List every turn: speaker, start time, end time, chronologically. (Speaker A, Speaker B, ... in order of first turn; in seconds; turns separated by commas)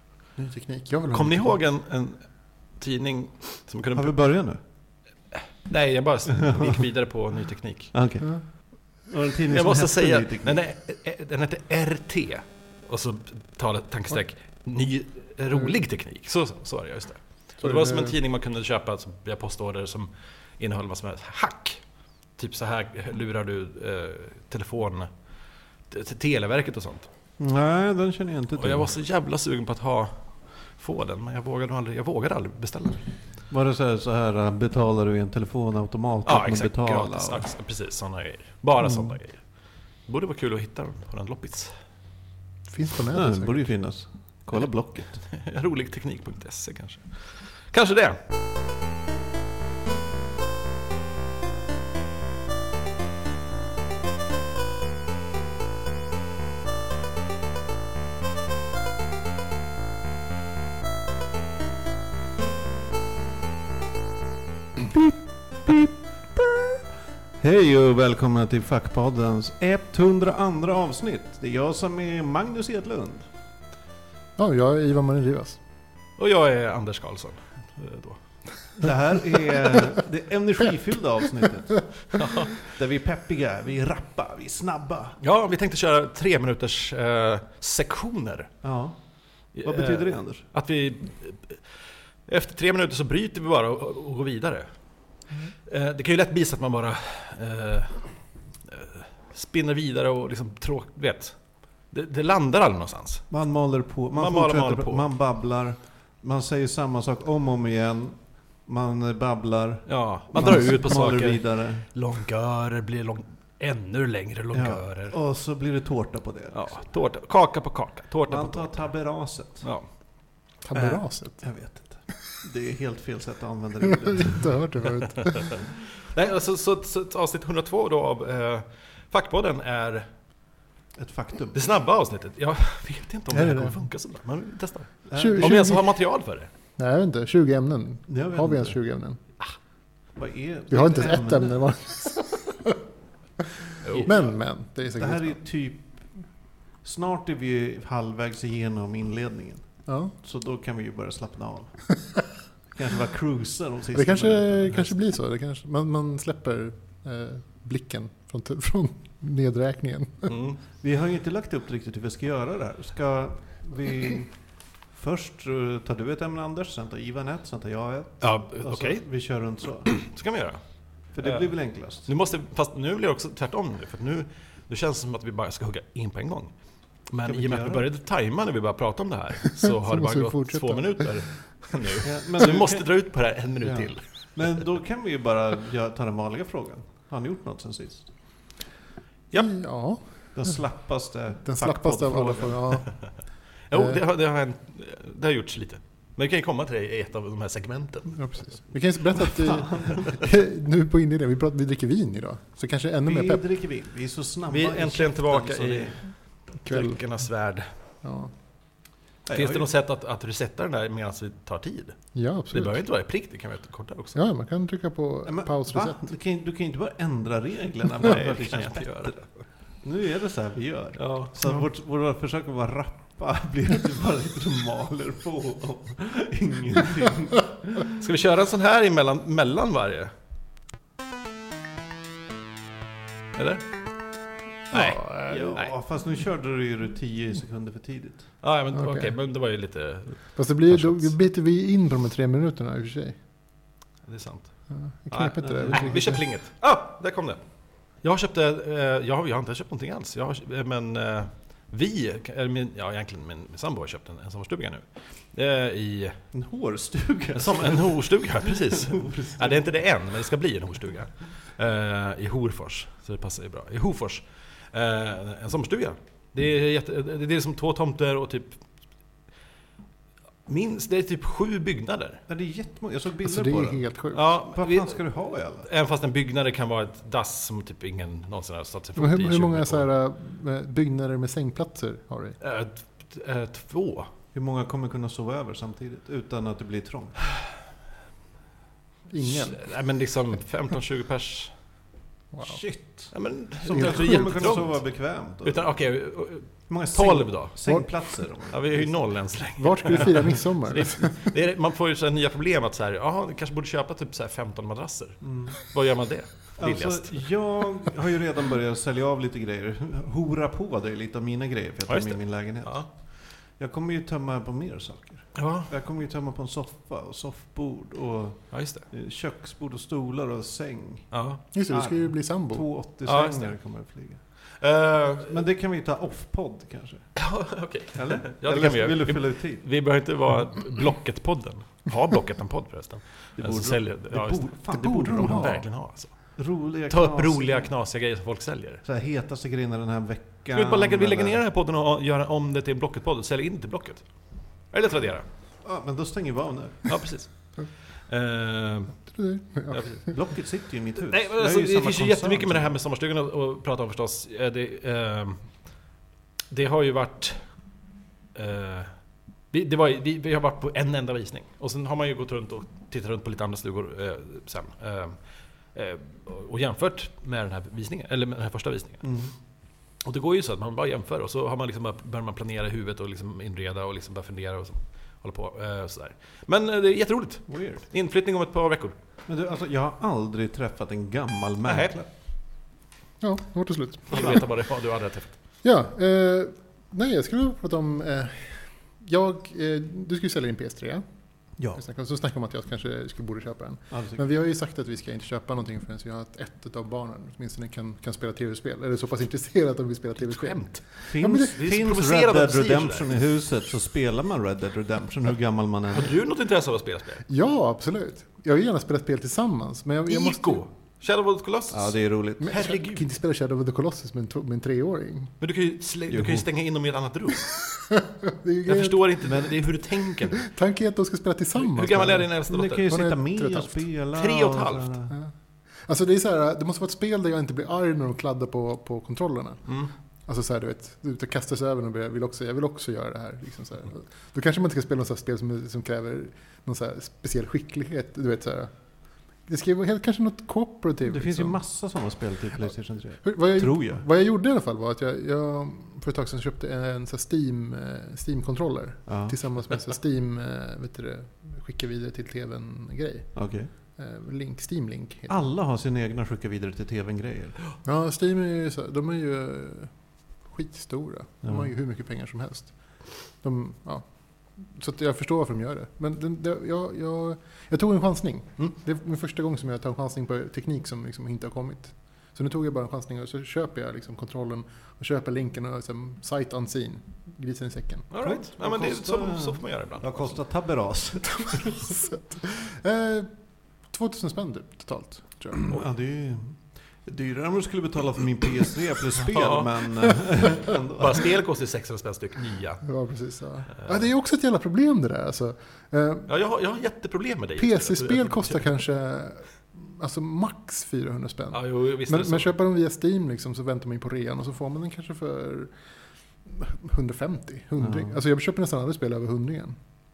Speaker A: 0.4-1.6, Speaker B: 1.1-4.2, Speaker C: 3.9-4.6, Speaker B: 5.3-7.9, Speaker C: 6.5-6.8, Speaker C: 7.9-10.6, Speaker B: 9.5-21.8, Speaker A: 17.6-18.1, Speaker B: 22.4-25.1, Speaker B: 25.9-27.1, Speaker C: 27.4-28.9, Speaker B: 28.6-33.1, Speaker C: 33.5-37.4, Speaker B: 36.2-39.5, Speaker B: 40.0-41.7, Speaker A: 42.7-43.7, Speaker C: 43.1-45.2, Speaker B: 45.2-48.2, Speaker C: 64.9-66.7, Speaker C: 67.4-73.3, Speaker A: 74.4-75.6, Speaker B: 76.2-78.2, Speaker C: 78.8-85.2, Speaker B: 82.1-82.6, Speaker B: 85.2-88.5, Speaker C: 88.6-90.5, Speaker B: 89.5-94.7, Speaker B: 95.7-98.1, Speaker B: 98.7-103.3, Speaker C: 103.3-111.9, Speaker B: 104.1-105.1, Speaker B: 109.9-115.2, Speaker C: 114.5-116.7, Speaker B: 116.5-118.9, Speaker C: 118.3-119.7, Speaker B: 119.6-119.9, Speaker A: 120.6-121.4, Speaker C: 120.7-124.6, Speaker A: 124.1-125.6, Speaker B: 125.0-130.1, Speaker C: 131.0-131.6, Speaker B: 131.5-136.5, Speaker A: 133.3-133.9, Speaker C: 135.1-135.6, Speaker A: 135.1-135.9, Speaker A: 136.8-139.2, Speaker C: 138.1-138.8, Speaker C: 140.1-141.6, Speaker A: 140.7-142.8, Speaker B: 143.8-144.3, Speaker A: 143.9-145.4, Speaker C: 144.9-146.1, Speaker C: 146.8-152.1, Speaker A: 149.8-150.1, Speaker C: 152.7-154.9, Speaker A: 153.9-160.3, Speaker B: 160.2-160.6, Speaker C: 160.7-170.0, Speaker B: 168.2-169.0, Speaker B: 169.8-176.5, Speaker C: 171.1-172.1, Speaker B: 177.1-184.6, Speaker C: 177.2-177.9, Speaker A: 179.7-181.2, Speaker C: 182.0-182.9, Speaker C: 183.6-188.1, Speaker A: 189.3-190.6, Speaker C: 190.3-192.7, Speaker A: 191.4-194.0, Speaker B: 193.7-198.4, Speaker A: 198.1-203.4, Speaker C: 199.4-200.1, Speaker C: 203.0-206.0, Speaker B: 204.5-207.7, Speaker A: 206.6-207.0, Speaker A: 208.0-208.3, Speaker C: 209.3-209.7, Speaker B: 209.3-214.2, Speaker A: 212.1-212.8, Speaker A: 214.1-216.1, Speaker C: 215.2-219.3, Speaker B: 218.0-219.4, Speaker C: 219.8-227.9, Speaker B: 221.0-221.5, Speaker B: 227.9-230.1, Speaker B: 233.3-233.6, Speaker B: 234.7-235.0, Speaker A: 234.7-235.6, Speaker C: 235.3-238.3, Speaker B: 238.4-241.1, Speaker A: 238.7-239.1, Speaker A: 240.3-243.2, Speaker B: 244.0-244.5, Speaker A: 244.7-246.2, Speaker B: 245.1-247.4, Speaker C: 245.4-246.1, Speaker B: 248.0-256.2, Speaker C: 256.3-259.6, Speaker B: 257.3-268.6, Speaker B: 270.4-272.2, Speaker C: 272.3-275.7, Speaker A: 273.2-274.3, Speaker B: 274.1-275.0, Speaker B: 275.6-279.9, Speaker A: 278.9-282.4, Speaker B: 282.4-284.1, Speaker C: 284.3-287.2, Speaker A: 289.1-289.6, Speaker B: 289.2-291.5, Speaker A: 292.3-292.6, Speaker C: 292.4-295.7, Speaker B: 293.1-297.8, Speaker A: 293.7-294.4, Speaker C: 296.7-299.0, Speaker A: 297.6-297.9, Speaker B: 298.5-307.5, Speaker A: 299.6-301.3, Speaker C: 305.2-305.6, Speaker C: 306.6-313.0, Speaker B: 311.9-312.9, Speaker C: 313.6-321.1, Speaker B: 315.3-315.7, Speaker B: 318.5-318.9, Speaker B: 321.1-321.4, Speaker A: 321.5-322.7, Speaker C: 321.7-324.2, Speaker B: 323.1-323.5, Speaker B: 324.6-325.3, Speaker C: 325.2-327.1, Speaker B: 327.1-336.2, Speaker C: 327.9-329.6, Speaker C: 333.4-335.6, Speaker A: 334.7-335.7, Speaker C: 336.4-337.7, Speaker B: 336.9-338.8, Speaker C: 338.8-341.4, Speaker B: 340.5-344.1, Speaker B: 344.6-345.2, Speaker C: 345.6-346.9, Speaker B: 346.9-349.0, Speaker A: 349.1-350.1, Speaker B: 349.7-350.0, Speaker C: 350.1-352.7, Speaker B: 351.0-355.4, Speaker B: 356.5-357.4, Speaker B: 358.3-358.9, Speaker B: 359.5-365.2, Speaker B: 365.7-369.0, Speaker C: 369.0-369.3, Speaker B: 370.0-378.9, Speaker C: 377.5-377.8, Speaker C: 379.2-382.1, Speaker B: 381.6-382.0, Speaker A: 383.2-384.4, Speaker B: 384.1-385.3, Speaker A: 385.6-391.0, Speaker A: 391.7-401.6, Speaker C: 393.9-394.2, Speaker B: 400.2-403.1, Speaker C: 401.0-406.2, Speaker B: 405.9-407.2, Speaker A: 407.3-410.6, Speaker B: 410.1-413.0, Speaker C: 411.7-412.5, Speaker A: 412.4-415.3, Speaker B: 415.4-417.6, Speaker C: 416.1-416.4, Speaker A: 417.7-419.5, Speaker B: 418.6-420.4, Speaker A: 420.2-422.3, Speaker B: 421.6-423.0, Speaker C: 422.4-425.1, Speaker A: 422.9-423.8, Speaker B: 424.1-424.9, Speaker A: 425.1-429.7, Speaker B: 429.7-429.9, Speaker A: 430.2-438.7, Speaker A: 439.4-441.6, Speaker C: 441.0-444.0, Speaker A: 443.2-455.4, Speaker C: 449.1-449.4, Speaker C: 453.3-453.7, Speaker C: 455.3-457.6, Speaker A: 457.8-478.1, Speaker C: 461.4-461.7, Speaker B: 478.1-480.4, Speaker C: 478.2-481.8, Speaker A: 481.7-483.3, Speaker A: 483.8-485.7, Speaker C: 485.7-491.3, Speaker B: 489.2-492.9, Speaker A: 492.8-496.3, Speaker B: 496.3-498.6, Speaker A: 497.6-505.7, Speaker B: 501.5-502.5, Speaker A: 506.4-509.8, Speaker C: 507.8-508.1